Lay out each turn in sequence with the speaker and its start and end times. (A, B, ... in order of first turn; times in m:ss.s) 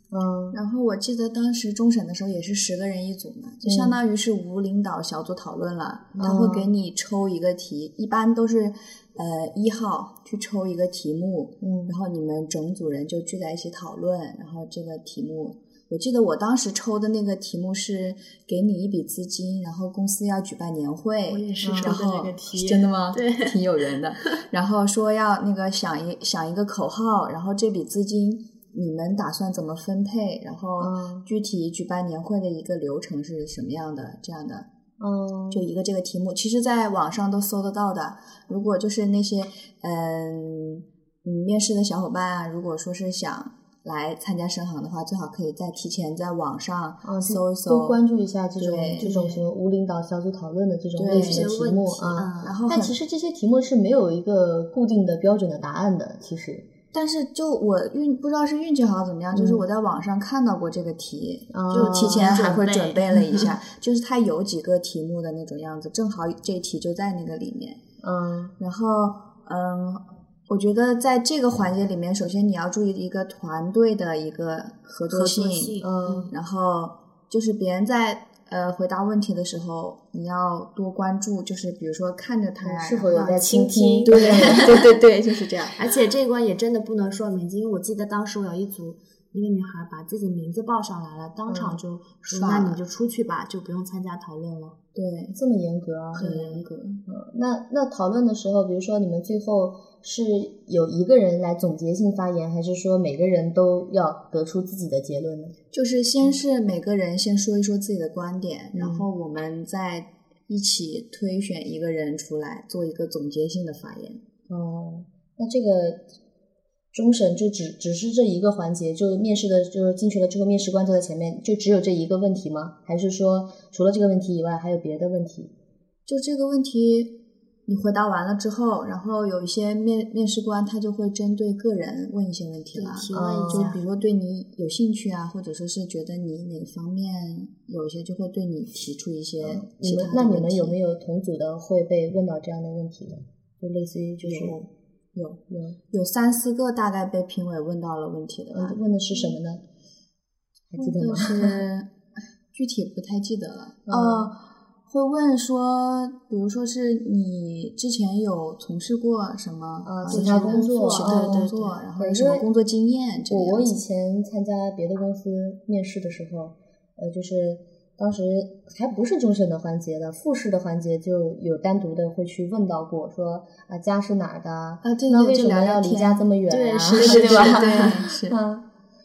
0:00.1-0:00.6 A
0:00.5-0:34.7 B
0:03.6-0:04.0 A
0:06.2-0:06.7 A
0:11.6-0:12.0 A
0:21.3-0:23.6 C
0:21.6-0:22.0 A
0:30.8-0:31.3 A
0:35.0-0:35.6 A
0:35.5-0:48.0 B
0:47.0-0:56.7 A
0:48.6-0:49.1 B
0:49.0-0:49.4 C
0:51.0-0:51.5 B
0:51.1-0:52.5 C
0:52.4-0:53.0 B
0:56.9-1:07.8 B
0:59.3-0:59.6 A
1:01.5-1:02.5 A
1:01.7-1:03.4 C
1:08.0-1:08.5 A
1:08.6-1:15.8 B
1:15.1-1:16.3 C
1:15.8-1:16.3 A
1:16.3-1:23.4 B
1:22.6-1:24.8 A
1:23.1-1:24.7 C
1:24.0-1:25.8 B
1:25.7-1:34.8 C
1:31.5-1:31.8 A
1:32.3-1:32.8 B
1:34.9-1:35.4 B
1:35.3-1:45.6 A
1:36.1-1:37.0 B
1:45.7-1:54.2 B
1:48.7-1:49.1 A
1:54.5-1:56.0 A
1:56.9-2:05.5 A
2:06.0-2:07.2 B
2:07.7-2:20.8 B
2:12.7-2:13.8 C
2:13.1-2:13.7 A
2:19.4-2:24.6 A
2:24.2-2:29.3 B
2:25.5-2:25.8 A
2:28.5-2:29.6 A
2:30.7-2:31.6 A
2:30.8-2:31.9 B
2:32.5-2:43.8 B
2:33.9-2:34.3 A
2:39.8-2:42.5 A
2:40.1-2:41.8 C
2:43.3-2:58.6 A
2:54.8-2:56.2 B
2:56.5-2:58.0 C
2:56.9-2:58.4 B